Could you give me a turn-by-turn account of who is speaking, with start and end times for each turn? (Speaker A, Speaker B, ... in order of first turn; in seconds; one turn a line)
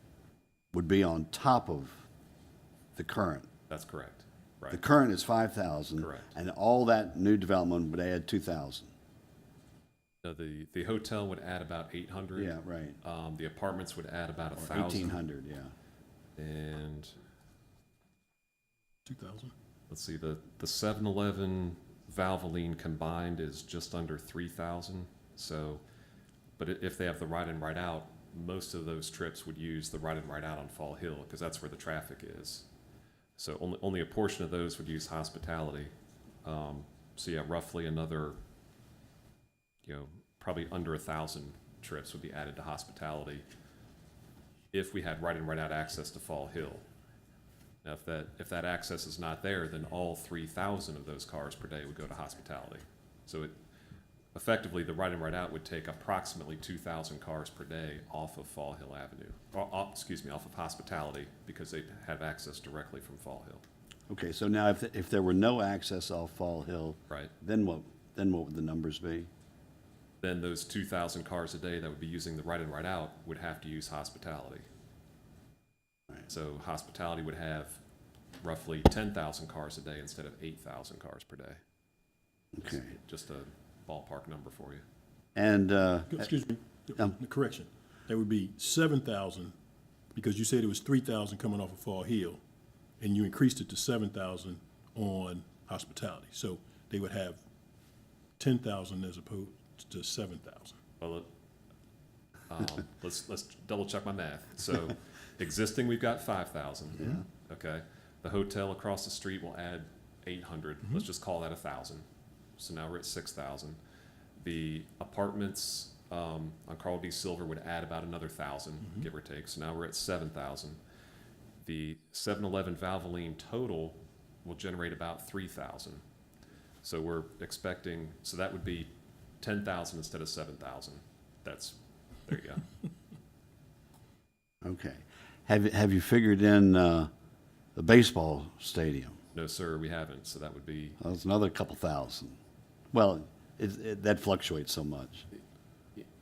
Speaker A: 0.7-2.1
Speaker A: 3.0-3.5
Speaker B: 3.7-4.8
Speaker A: 4.7-8.9
Speaker B: 6.0-6.3
Speaker B: 10.2-15.2
Speaker A: 12.3-13.0
Speaker A: 14.6-15.7
Speaker B: 16.4-17.1
Speaker C: 19.0-19.5
Speaker B: 19.9-25.8
Speaker B: 26.6-32.6
Speaker B: 33.4-35.9
Speaker B: 36.4-38.4
Speaker B: 39.8-43.5
Speaker B: 44.7-46.8
Speaker B: 47.8-53.5
Speaker B: 54.3-63.6
Speaker A: 64.1-69.3
Speaker B: 70.2-74.7
Speaker B: 76.3-77.8
Speaker B: 78.4-81.6
Speaker A: 82.5-82.9
Speaker B: 82.6-84.8
Speaker A: 85.3-86.2
Speaker C: 86.1-89.5
Speaker C: 90.1-92.4
Speaker C: 93.0-97.4
Speaker C: 98.4-100.8
Speaker B: 101.0-101.3
Speaker B: 102.5-112.0
Speaker B: 112.6-113.8
Speaker B: 114.4-120.8
Speaker B: 121.6-126.0
Speaker B: 126.8-128.9
Speaker B: 129.4-132.7
Speaker A: 134.6-137.1
Speaker A: 137.7-139.2
Speaker B: 139.3-141.0
Speaker A: 141.0-142.4
Speaker A: 142.9-145.3